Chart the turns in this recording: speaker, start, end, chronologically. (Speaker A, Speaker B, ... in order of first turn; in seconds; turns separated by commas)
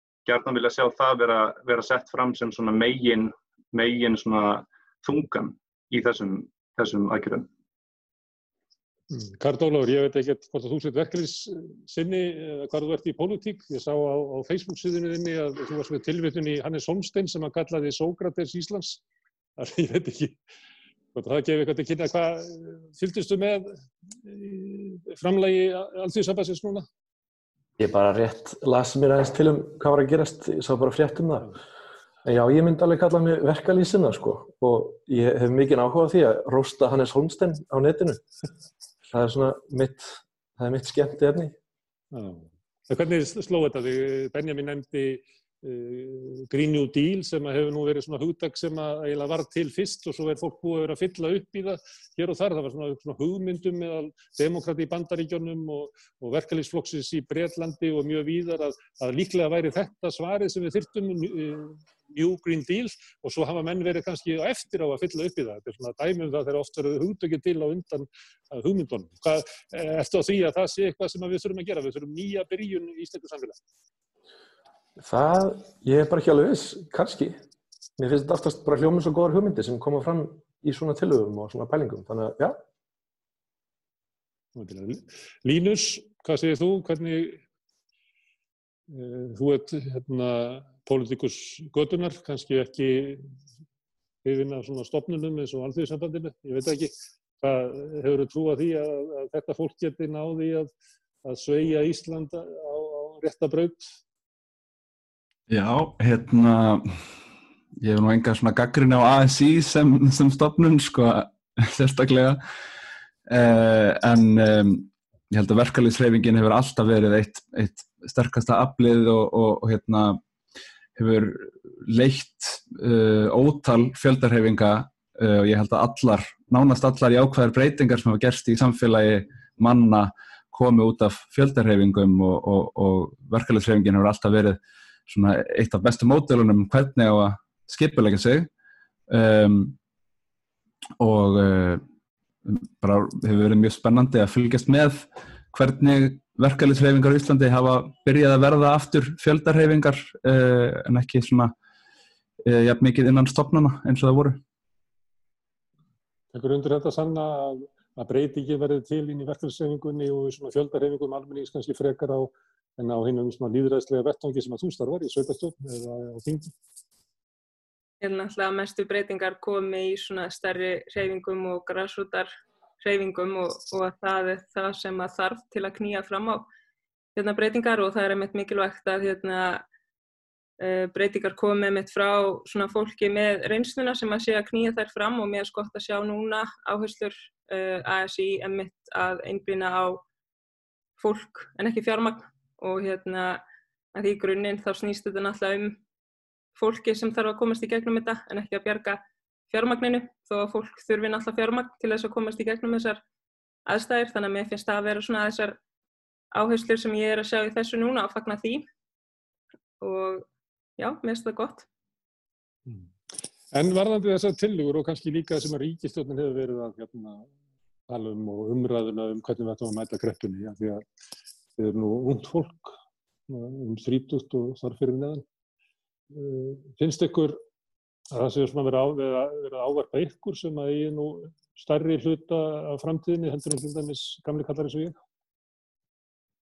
Speaker A: 0.2-7.5, Speaker B: 9.1-19.0, Speaker B: 19.6-20.4, Speaker B: 21.1-26.9, Speaker C: 27.8-31.6, Speaker C: 32.2-38.2, Speaker C: 39.1-41.5, Speaker B: 42.1-73.6, Speaker C: 75.0-77.4, Speaker C: 78.0-82.6, Speaker B: 84.5-87.4, Speaker B: 88.9-93.3, Speaker B: 94.2-100.7, Speaker B: 101.2-103.9, Speaker D: 105.5-107.0, Speaker D: 107.8-112.4, Speaker D: 113.3-120.2, Speaker D: 121.0-138.5, Speaker D: 139.1-139.8, Speaker D: 141.0-141.8, Speaker D: 142.4-151.5, Speaker D: 152.4-154.4, Speaker B: 156.3-166.5, Speaker E: 168.0-176.5, Speaker E: 177.1-179.6, Speaker E: 180.6-190.0, Speaker E: 191.0-193.4, Speaker E: 193.9-195.8, Speaker E: 196.6-203.0, Speaker E: 203.7-205.6, Speaker E: 206.3-208.7, Speaker E: 209.8-210.2, Speaker E: 210.8-211.7, Speaker B: 213.5-217.3, Speaker B: 217.9-220.8, Speaker B: 221.6-222.7, Speaker B: 223.3-225.2, Speaker B: 226.1-227.4, Speaker B: 228.1-234.9